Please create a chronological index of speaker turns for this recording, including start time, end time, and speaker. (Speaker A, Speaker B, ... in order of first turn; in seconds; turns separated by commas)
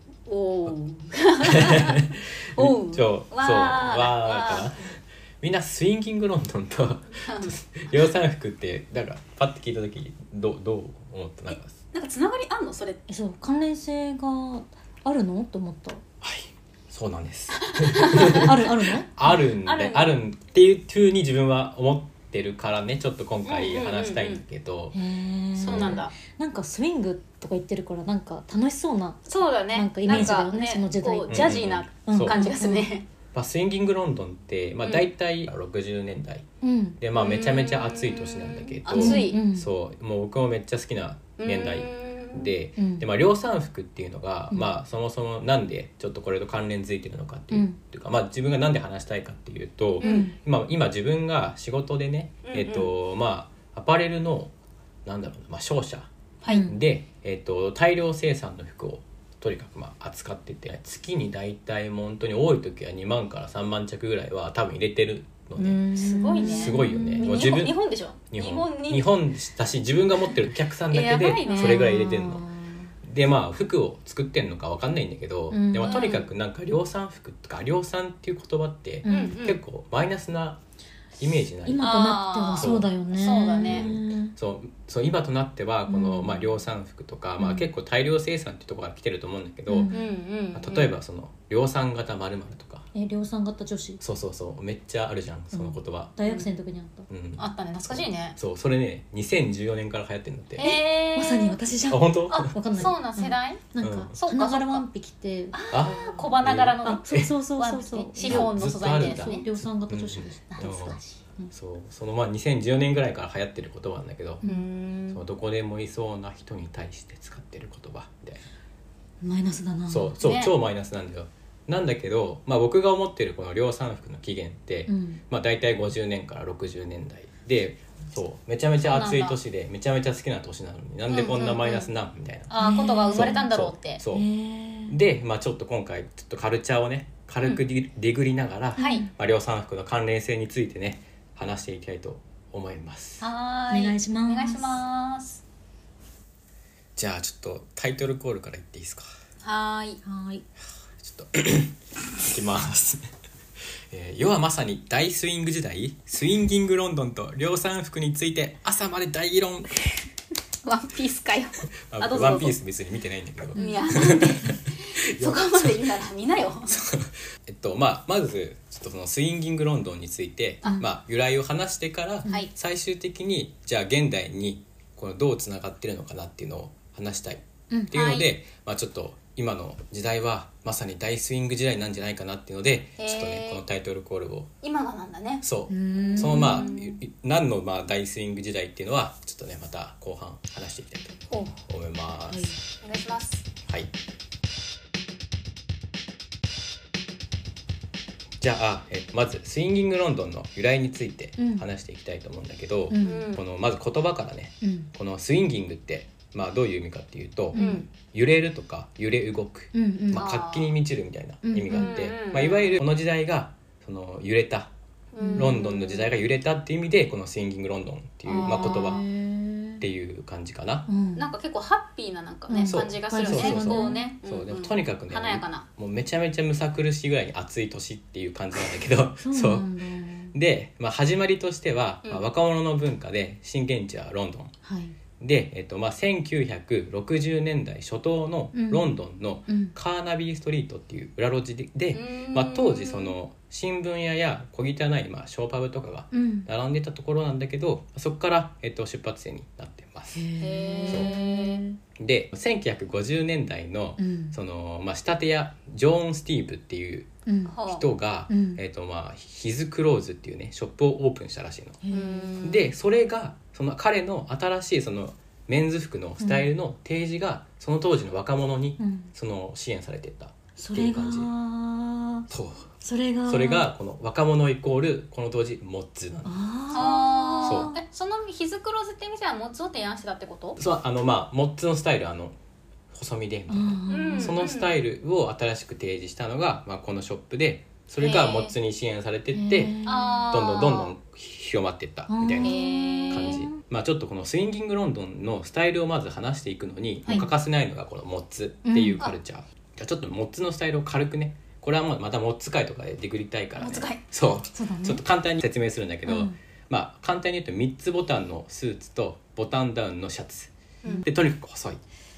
Speaker A: 0.3-4.7, Speaker B: 1.4-11.8, Speaker A: 7.2-7.6, Speaker A: 11.9-13.0, Speaker C: 13.1-16.0, Speaker B: 16.2-18.6, Speaker A: 17.6-18.5, Speaker C: 18.2-19.1, Speaker B: 19.1-25.0, Speaker A: 19.6-20.1, Speaker A: 23.5-24.4, Speaker C: 24.9-32.9, Speaker A: 25.6-26.1, Speaker B: 25.6-26.0, Speaker A: 29.2-33.0, Speaker B: 31.3-32.4, Speaker B: 33.3-36.5, Speaker C: 36.6-37.0, Speaker B: 37.0-54.5, Speaker A: 37.1-39.4, Speaker C: 38.9-39.7, Speaker A: 41.4-42.5, Speaker C: 42.8-43.1, Speaker C: 47.5-47.8, Speaker A: 50.0-50.3, Speaker C: 50.0-50.4, Speaker A: 52.4-52.9, Speaker B: 55.0-56.1, Speaker C: 56.5-56.8, Speaker B: 56.6-65.8, Speaker C: 65.6-67.5, Speaker A: 65.6-69.3, Speaker B: 66.4-72.4, Speaker A: 70.9-72.0, Speaker C: 71.4-72.9, Speaker B: 73.0-80.6, Speaker C: 75.5-76.1, Speaker A: 75.8-76.3, Speaker C: 79.0-79.4, Speaker A: 79.1-79.6, Speaker B: 81.2-81.9, Speaker C: 81.6-84.3, Speaker A: 81.8-83.9, Speaker B: 82.6-82.9, Speaker B: 83.6-89.9, Speaker C: 85.9-86.5, Speaker C: 87.4-87.7, Speaker C: 89.7-90.0, Speaker A: 89.9-90.9, Speaker B: 90.5-92.9, Speaker C: 92.9-94.0, Speaker B: 94.0-96.1, Speaker C: 95.5-97.1, Speaker A: 96.2-96.5, Speaker B: 97.1-100.8, Speaker A: 97.4-98.4, Speaker A: 100.6-101.6, Speaker C: 100.6-111.5, Speaker B: 101.9-102.5, Speaker A: 102.3-103.6, Speaker B: 103.8-104.2, Speaker A: 104.2-104.8, Speaker A: 105.5-109.4, Speaker B: 105.7-107.3, Speaker B: 108.2-111.0, Speaker A: 110.6-110.9, Speaker B: 111.5-114.4, Speaker A: 114.4-115.2, Speaker B: 115.1-118.5, Speaker C: 119.2-120.1, Speaker B: 119.9-134.3, Speaker A: 120.2-120.5, Speaker C: 124.9-125.2, Speaker A: 128.8-129.4, Speaker A: 131.1-131.9, Speaker A: 132.5-134.0, Speaker C: 132.6-133.5, Speaker C: 134.1-134.9, Speaker B: 134.9-143.2, Speaker A: 138.8-139.1, Speaker C: 138.8-139.1, Speaker A: 143.2-145.4, Speaker C: 143.7-144.8, Speaker B: 146.9-149.1, Speaker A: 149.4-150.0, Speaker C: 150.0-150.4, Speaker B: 151.0-153.0, Speaker B: 153.9-160.0, Speaker A: 160.6-162.5, Speaker B: 161.9-166.0, Speaker C: 163.5-164.2, Speaker A: 163.5-166.8, Speaker B: 166.7-184.5, Speaker A: 177.9-178.3, Speaker A: 183.0-183.6, Speaker A: 184.6-185.4, Speaker B: 185.4-192.5, Speaker C: 185.7-186.7, Speaker A: 186.0-187.0, Speaker A: 191.3-191.6, Speaker C: 192.3-192.6, Speaker A: 192.8-193.5, Speaker B: 198.4-214.7, Speaker C: 201.4-201.7, Speaker C: 202.9-203.3, Speaker A: 203.0-203.4, Speaker C: 204.6-204.9, Speaker C: 207.5-207.8, Speaker A: 207.5-207.8, Speaker C: 209.7-210.3, Speaker A: 210.1-210.7, Speaker C: 211.4-212.0, Speaker A: 211.7-212.8, Speaker A: 215.1-216.1, Speaker C: 215.2-215.6, Speaker B: 215.3-219.0, Speaker A: 218.3-219.0, Speaker C: 218.3-219.8, Speaker B: 219.8-220.9, Speaker C: 220.9-221.3, Speaker A: 221.2-225.7, Speaker C: 222.5-224.0, Speaker B: 222.7-229.7, Speaker C: 229.2-230.3, Speaker B: 230.3-234.5, Speaker C: 234.6-234.9, Speaker B: 235.2-250.3, Speaker C: 238.5-238.9, Speaker C: 239.5-239.7, Speaker A: 241.9-243.1, Speaker C: 246.1-246.5, Speaker C: 250.1-251.8, Speaker A: 250.4-251.6, Speaker B: 250.9-251.1, Speaker B: 252.0-257.1, Speaker C: 254.0-254.3, Speaker C: 257.2-257.6, Speaker A: 257.5-257.9, Speaker B: 257.6-261.8, Speaker C: 258.3-258.6, Speaker C: 261.8-262.4, Speaker A: 261.9-262.7, Speaker B: 262.4-271.3, Speaker C: 266.2-266.5, Speaker C: 268.8-269.1, Speaker C: 270.6-272.3, Speaker B: 272.3-272.7, Speaker C: 272.8-273.7, Speaker B: 273.2-276.3, Speaker C: 276.2-277.8, Speaker A: 276.7-280.6, Speaker B: 277.4-277.7, Speaker B: 280.6-282.4, Speaker B: 282.9-310.5, Speaker C: 283.5-284.4, Speaker A: 283.9-284.7, Speaker A: 288.0-288.5, Speaker C: 289.3-290.2, Speaker A: 289.8-290.9, Speaker C: 292.1-293.6, Speaker A: 292.4-293.4, Speaker C: 298.6-299.1, Speaker A: 303.6-304.0, Speaker C: 304.5-305.0, Speaker C: 306.1-306.4, Speaker B: 311.0-311.8